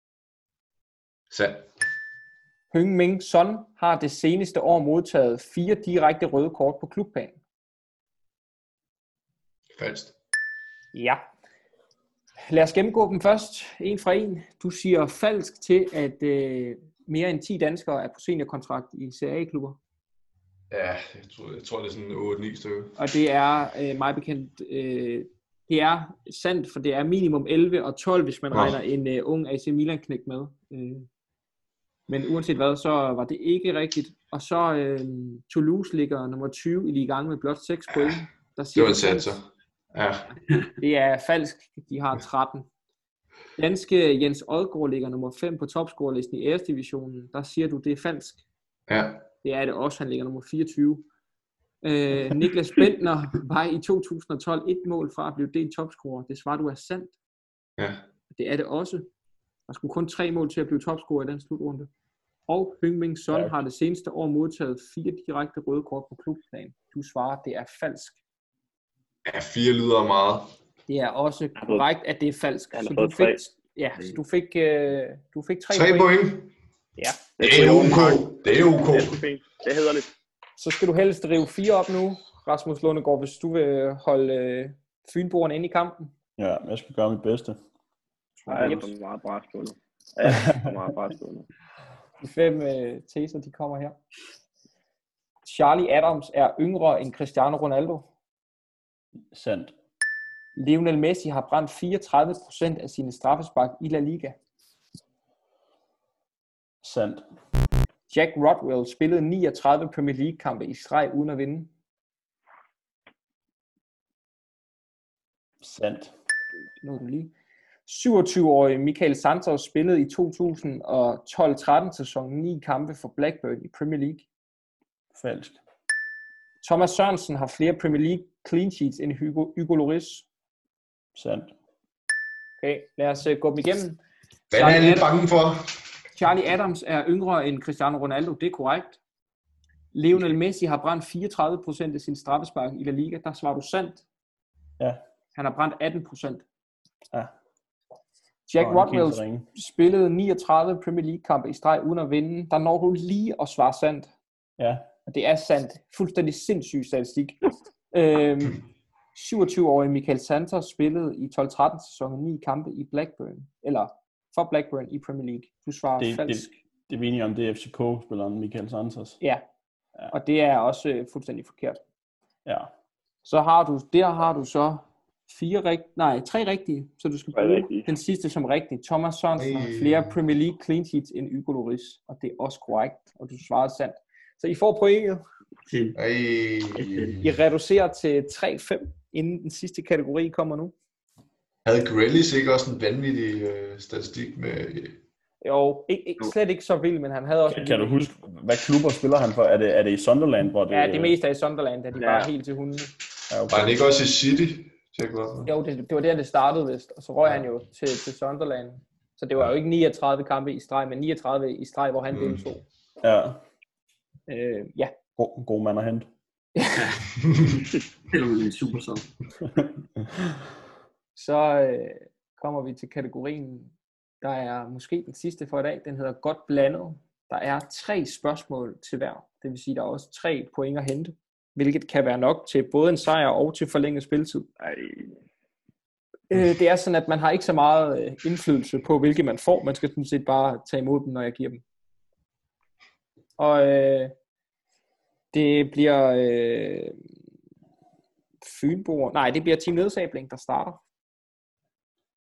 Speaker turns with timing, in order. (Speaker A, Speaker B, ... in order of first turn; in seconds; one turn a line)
Speaker A: 1.3-1.7
Speaker B: 2.7-7.4
Speaker A: 9.7-10.1
Speaker B: 10.9-11.2
Speaker B: 12.4-19.8
Speaker A: 20.7-23.0
Speaker B: 23.0-31.1
Speaker B: 32.1-39.4
Speaker A: 38.7-40.3
Speaker B: 40.8-42.7
Speaker B: 43.6-48.4
Speaker A: 48.9-49.2
Speaker B: 49.4-51.0
Speaker B: 51.8-57.1
Speaker A: 57.8-58.0
Speaker B: 58.3-59.1
Speaker B: 59.7-61.9
Speaker B: 62.5-68.2
Speaker A: 69.2-70.5
Speaker B: 70.9-76.1
Speaker C: 71.6-71.8
Speaker C: 72.7-73.4
Speaker A: 75.7-76.5
Speaker B: 77.0-77.2
Speaker C: 77.4-80.1
Speaker A: 77.4-79.2
Speaker B: 80.6-86.1
Speaker D: 86.4-87.6
Speaker B: 88.5-88.9
Speaker C: 88.5-91.5
Speaker D: 90.2-90.7
Speaker B: 92.2-94.0
Speaker B: 95.4-98.1
Speaker D: 99.3-99.7
Speaker B: 100.5-104.4
Speaker D: 106.8-107.2
Speaker B: 108.1-111.7
Speaker D: 115.6-116.1
Speaker B: 116.8-117.3
Speaker B: 117.8-124.2
Speaker D: 125.1-125.6
Speaker B: 126.6-130.2
Speaker D: 131.2-131.5
Speaker B: 132.6-134.0
Speaker A: 134.5-135.7
Speaker B: 134.5-135.1
Speaker B: 136.2-139.0
Speaker B: 139.9-144.0
Speaker B: 145.3-146.4
Speaker B: 148.5-154.1
Speaker D: 148.6-149.5
Speaker D: 154.6-154.9
Speaker B: 155.1-157.4
Speaker B: 157.9-166.5
Speaker D: 166.0-169.2
Speaker B: 170.1-171.8
Speaker D: 172.4-172.7
Speaker B: 173.2-185.2
Speaker C: 177.3-177.9
Speaker A: 179.4-180.1
Speaker E: 185.7-186.0
Speaker A: 185.9-187.2
Speaker E: 186.7-187.2
Speaker B: 187.2-190.7
Speaker A: 191.6-195.0
Speaker B: 195.4-198.0
Speaker D: 197.5-201.1
Speaker B: 200.7-202.9
Speaker C: 202.0-202.3
Speaker D: 203.3-203.8
Speaker A: 203.5-205.5
Speaker B: 205.4-212.6
Speaker A: 212.1-212.4
Speaker D: 213.0-213.4
Speaker B: 214.3-214.9
Speaker D: 215.2-216.1
Speaker B: 216.6-216.9
Speaker E: 216.8-217.0
Speaker E: 218.1-219.1
Speaker B: 221.1-234.5
Speaker C: 234.6-235.0
Speaker B: 236.3-241.6
Speaker B: 243.4-244.1
Speaker B: 245.3-247.0
Speaker B: 248.4-250.8